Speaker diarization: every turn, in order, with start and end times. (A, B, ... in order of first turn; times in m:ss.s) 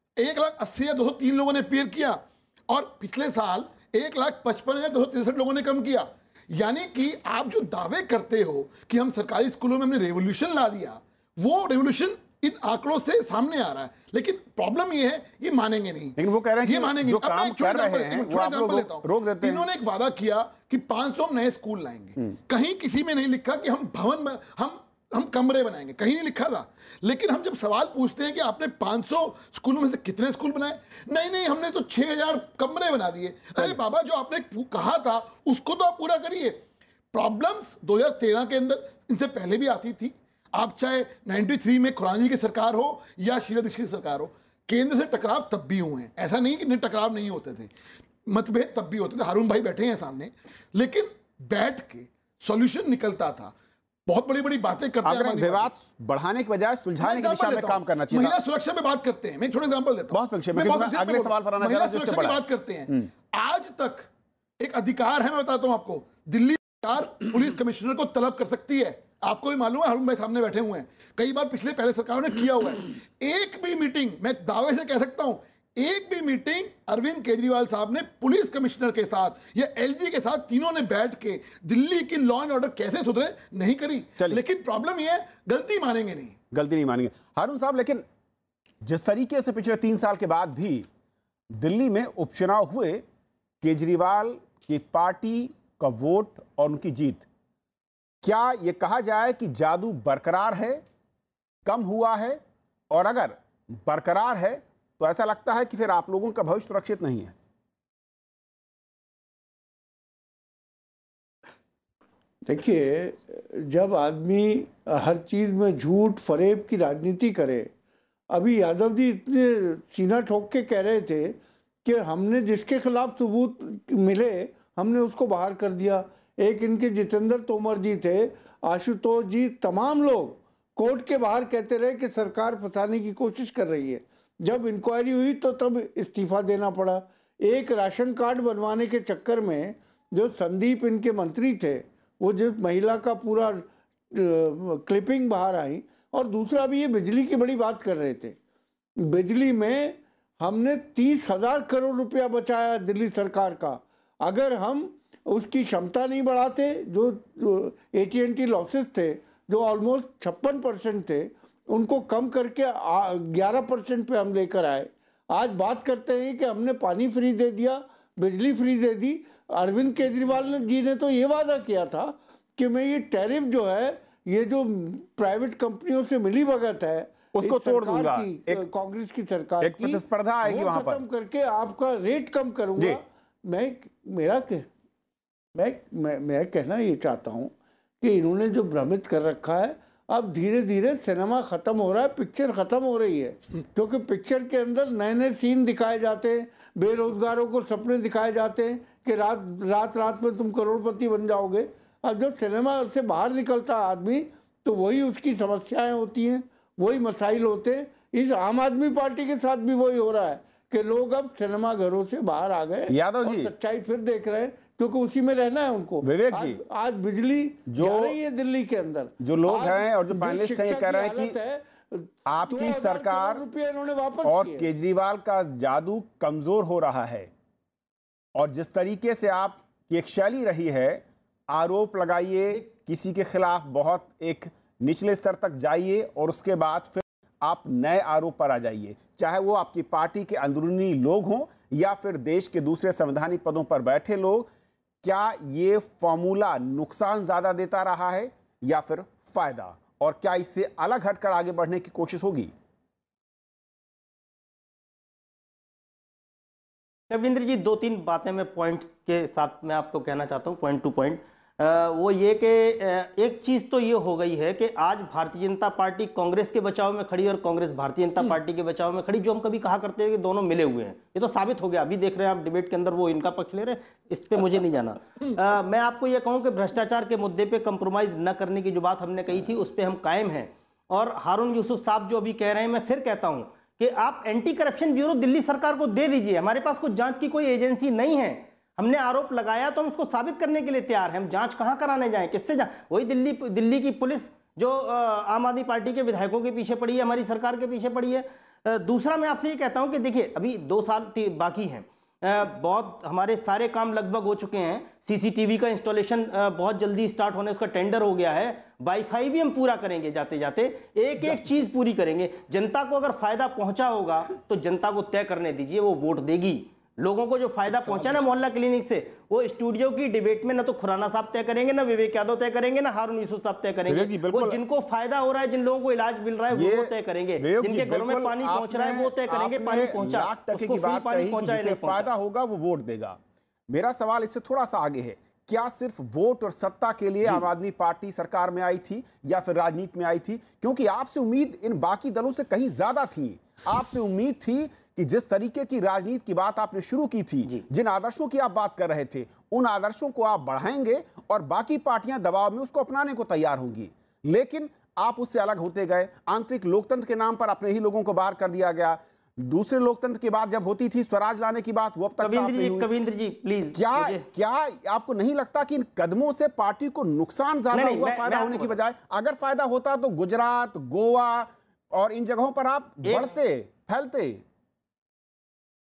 0:00.2-0:36.6 A
0:16.2-0:19.6 B
0:37.1-0:47.7 A
0:48.2-0:53.5 A
0:54.1-0:55.7 A
0:55.0-0:58.4 B
0:57.0-1:04.1 A
1:00.1-1:02.4 B
1:04.6-1:26.4 A
1:26.5-1:28.0 B
1:28.8-1:30.8 B
1:31.5-1:33.0 B
1:33.6-1:37.3 B
1:38.2-1:40.8 B
1:41.6-1:47.3 B
1:52.4-1:57.7 C
1:58.3-2:28.4 C
2:29.0-3:04.7 C
2:57.3-2:58.6 B
2:59.6-3:01.0 B
3:05.5-3:44.7 C
3:32.9-3:33.5 B
3:36.0-3:36.6 B
3:37.7-3:38.2 B
3:39.2-3:41.4 B
3:42.2-3:43.4 B
3:44.2-3:47.3 B
3:48.3-4:04.5 B
4:05.0-4:12.5 B
4:17.1-5:32.1 D
5:17.6-5:18.2 B
5:23.9-5:24.6 B
5:26.5-5:33.2 B
5:33.7-6:02.9 B
6:02.2-6:04.2 D
6:03.7-6:14.4 B
6:07.7-6:08.7 D
6:13.0-6:13.4 D